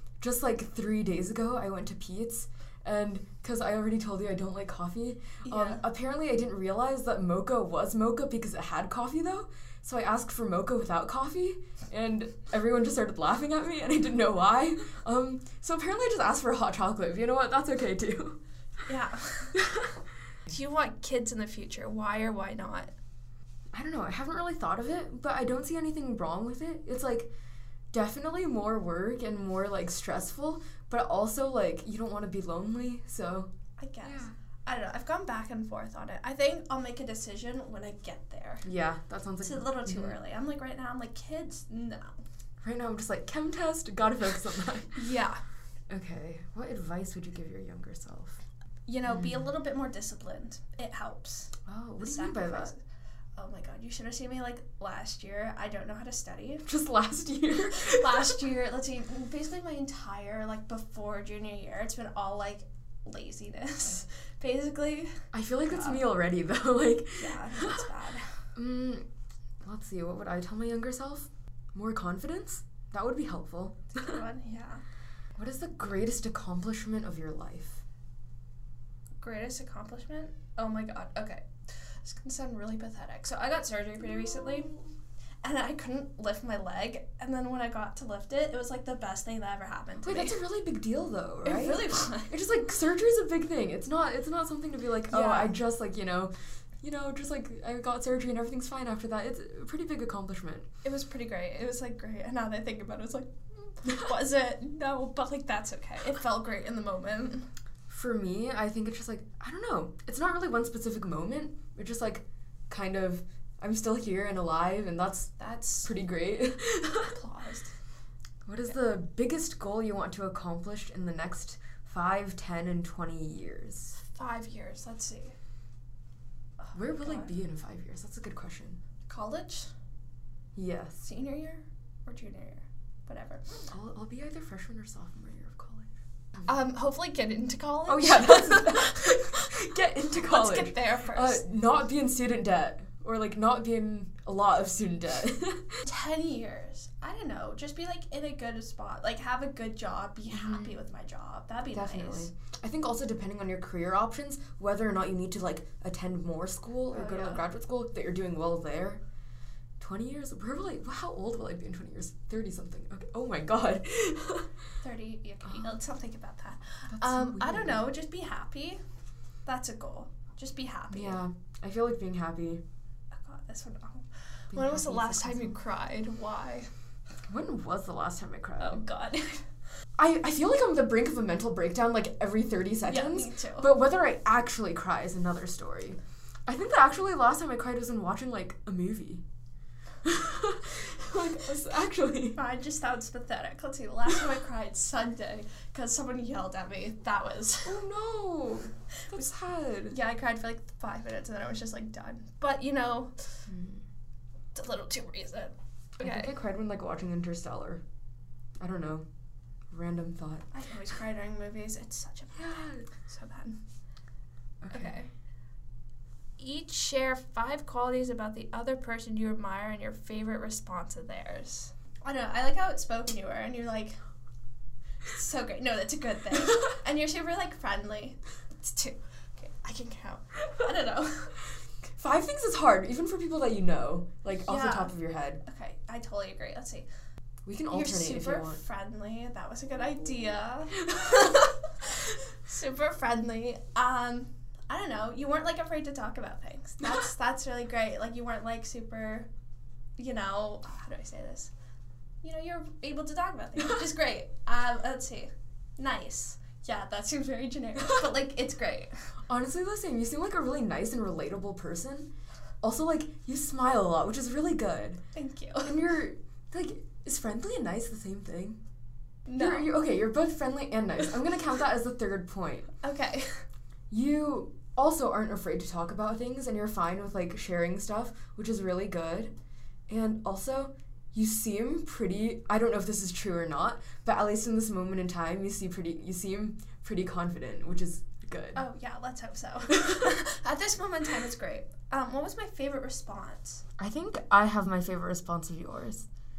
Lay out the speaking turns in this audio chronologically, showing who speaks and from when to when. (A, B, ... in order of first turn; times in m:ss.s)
0:00.2-0:18.4 A
0:05.4-0:05.8 B
0:18.9-0:19.6 B
0:19.6-0:20.0 A
0:20.5-0:22.9 B
0:23.7-0:27.3 A
0:27.9-0:33.5 A
0:33.8-0:38.7 B
0:34.0-0:34.3 A
0:38.6-0:40.2 A
0:39.4-0:42.2 B
0:42.6-0:45.1 A
0:44.9-0:45.4 B
0:45.9-0:48.4 A
0:48.9-0:52.8 B
0:49.1-0:49.5 A
0:51.7-0:52.7 A
0:53.4-0:56.7 B
0:56.6-0:58.4 A
0:57.8-1:05.1 B
1:05.3-1:07.9 A
1:05.7-1:06.0 B
1:07.2-1:08.4 B
1:08.6-1:09.1 A
1:09.6-1:14.2 A
1:13.9-1:14.8 B
1:15.4-1:17.8 A
1:19.2-1:24.8 B
1:24.1-1:24.9 A
1:25.4-1:30.4 B
1:30.0-1:40.7 A
1:31.4-1:32.3 B
1:35.1-1:35.6 B
1:40.8-1:47.5 B
1:47.9-1:55.3 A
1:55.4-1:55.9 B
1:55.8-1:57.1 A
1:57.1-1:57.7 B
1:58.4-2:04.0 A
2:04.0-2:05.4 B
2:06.6-2:07.3 B
2:06.7-2:08.8 A
2:09.1-2:09.7 B
2:10.6-2:11.0 A
2:11.0-2:13.6 B
2:13.7-2:15.9 A
2:16.4-2:19.6 B
2:17.9-2:25.8 A
2:20.2-2:21.4 B
2:25.8-2:32.3 B
2:30.3-2:30.8 A
2:31.7-2:39.0 A
2:36.9-2:37.4 B
2:39.8-2:44.5 A
2:44.8-2:48.8 B
2:45.4-2:45.7 A
2:46.9-2:47.9 A
2:49.4-2:51.2 B
2:50.9-2:52.6 A
2:53.1-2:56.7 B
2:54.5-2:55.6 A
2:57.3-2:58.8 A
2:58.6-2:59.5 B
3:00.0-3:09.2 A
3:02.9-3:03.7 B
3:10.0-3:12.4 A
3:12.4-3:17.8 B
3:17.6-3:20.0 A
3:19.9-3:23.2 B
3:23.5-3:23.9 A
3:24.6-3:26.3 B
3:26.0-3:27.8 A
3:28.6-3:29.1 A
3:29.7-3:30.5 A
3:30.5-3:33.6 B
3:32.4-3:32.9 A
3:34.6-3:35.0 A
3:34.7-3:35.1 B
3:36.4-3:44.0 B
3:45.0-3:51.4 B
3:51.9-3:55.4 A
3:54.4-3:56.9 B
3:57.4-3:58.6 A
3:57.7-4:09.3 B
4:00.9-4:01.4 A
4:10.0-4:11.5 B
4:12.2-4:18.9 B
4:19.3-4:22.1 A
4:22.6-4:25.0 A
4:25.2-4:25.8 B
4:25.6-4:28.6 A
4:29.3-4:29.7 B
4:29.4-4:32.7 A
4:32.8-4:33.4 B
4:33.9-4:39.3 A
4:39.9-4:48.6 A
4:48.6-4:53.6 B
4:49.7-4:50.2 A
4:53.8-4:56.1 A